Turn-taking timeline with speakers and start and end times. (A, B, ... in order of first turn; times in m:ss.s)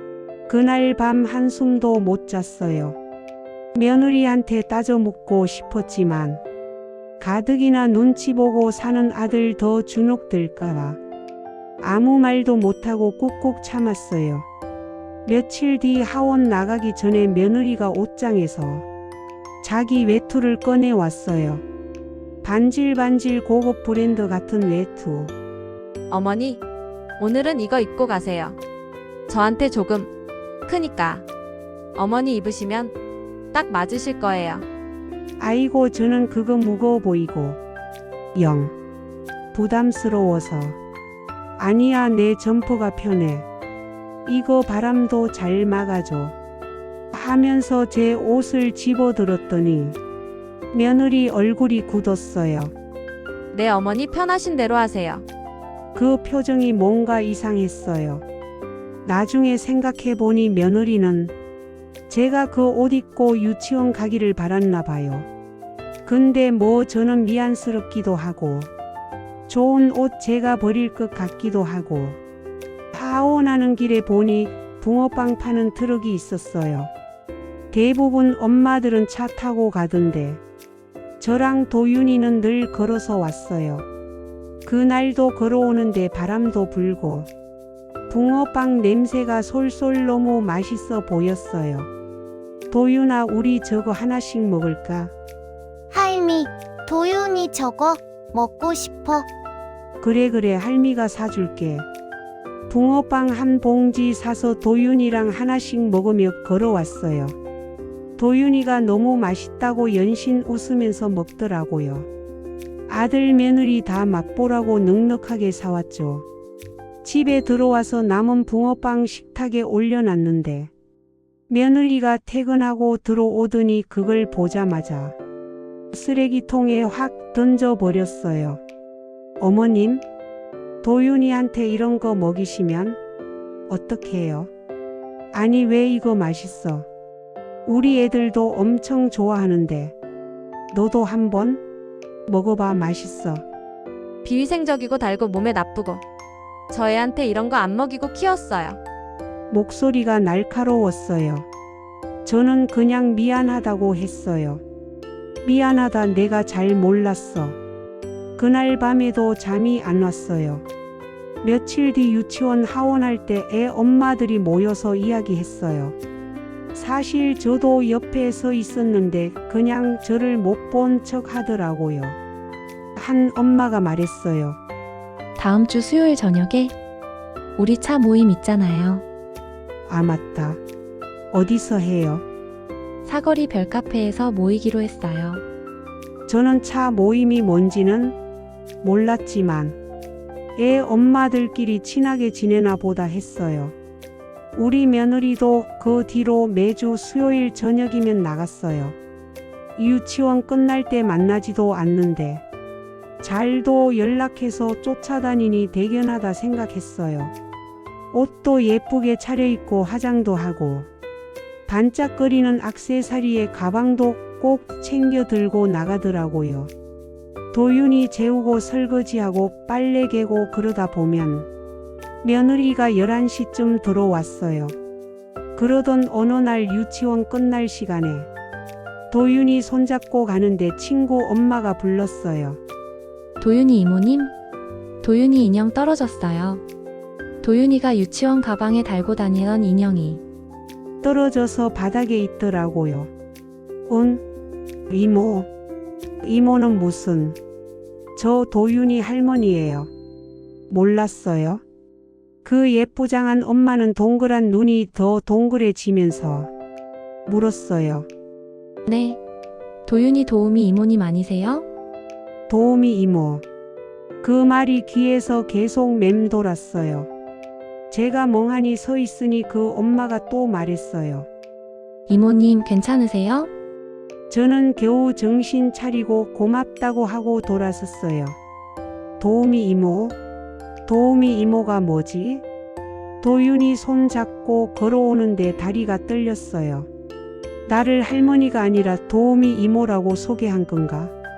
0:00.5-0:03.0 A
0:03.8-0:06.4 A
0:07.2-0:11.0 A
0:11.8-0:14.5 A
0:15.2-0:18.9 A
0:19.6-0:21.6 A
0:22.4-0:25.3 A
0:26.1-0:26.6 B
0:27.2-0:28.6 B
0:29.3-0:30.1 B
0:30.7-0:31.2 B
0:32.0-0:32.9 B
0:33.5-0:34.7 B
0:35.4-0:37.6 A
0:38.4-0:38.7 A
0:39.5-0:40.8 A
0:41.6-0:43.5 A
0:44.3-0:46.4 A
0:47.1-0:50.0 A
0:50.7-0:52.7 A
0:53.5-0:55.2 B
0:56.0-0:58.2 A
0:59.0-1:01.3 A
1:02.1-1:05.3 A
1:06.0-1:08.7 A
1:09.5-1:12.2 A
1:12.9-1:16.9 A
1:17.7-1:20.4 A
1:21.2-1:23.9 A
1:24.6-1:27.3 A
1:28.1-1:31.9 A
1:32.7-1:35.1 A
1:35.9-1:39.3 C
1:40.0-1:41.9 A
1:42.7-1:47.4 A
1:48.2-1:52.1 A
1:52.9-1:56.3 A
1:57.0-2:00.7 A
2:01.5-2:05.2 A
2:05.9-2:08.6 A
2:09.4-2:10.0 A
2:10.8-2:13.0 A
2:13.7-2:14.5 A
2:15.3-2:16.9 A
2:17.7-2:20.0 A
2:20.7-2:21.6 A
2:22.3-2:23.4 A
2:24.2-2:26.0 B
2:26.7-2:28.8 B
2:29.5-2:31.5 A
2:32.2-2:34.6 A
2:35.4-2:37.6 A
2:38.4-2:40.6 A
2:41.4-2:46.0 A
2:46.7-2:52.2 A
2:53.0-2:54.6 A
2:55.4-2:56.7 D
2:57.6-2:59.0 D
2:59.9-3:00.6 A
3:01.3-3:02.2 A
3:03.0-3:05.4 D
3:06.3-3:08.2 A
3:08.8-3:09.8 A
3:10.6-3:13.8 A
3:14.6-3:19.0 A
3:19.8-3:22.4 A
3:23.2-3:27.3 A
3:28.1-3:30.9 A
3:31.7-3:36.7 A
3:37.5-3:41.5 A
3:42.2-3:44.8 A
3:45.6-3:48.3 A
3:49.1-3:52.6 A
3:53.4-3:54.3 D
3:55.0-3:56.6 D
3:57.4-4:00.2 D
4:01.0-4:03.1 A
4:03.9-4:04.2 A
4:04.9-4:05.5 A
4:06.2-4:07.4 A
4:08.2-4:09.9 A
4:10.7-4:11.6 A
4:12.4-4:16.5 A
4:17.3-4:18.1 A
4:18.9-4:19.2 D
4:19.8-4:21.6 D
4:22.5-4:23.4 A
4:24.2-4:27.1 A
4:27.9-4:31.3 A
4:32.1-4:33.5 D
4:34.3-4:38.4 A
4:39.2-4:40.2 A
4:40.9-4:42.4 A
4:43.2-4:46.9 A
4:47.7-4:51.1 A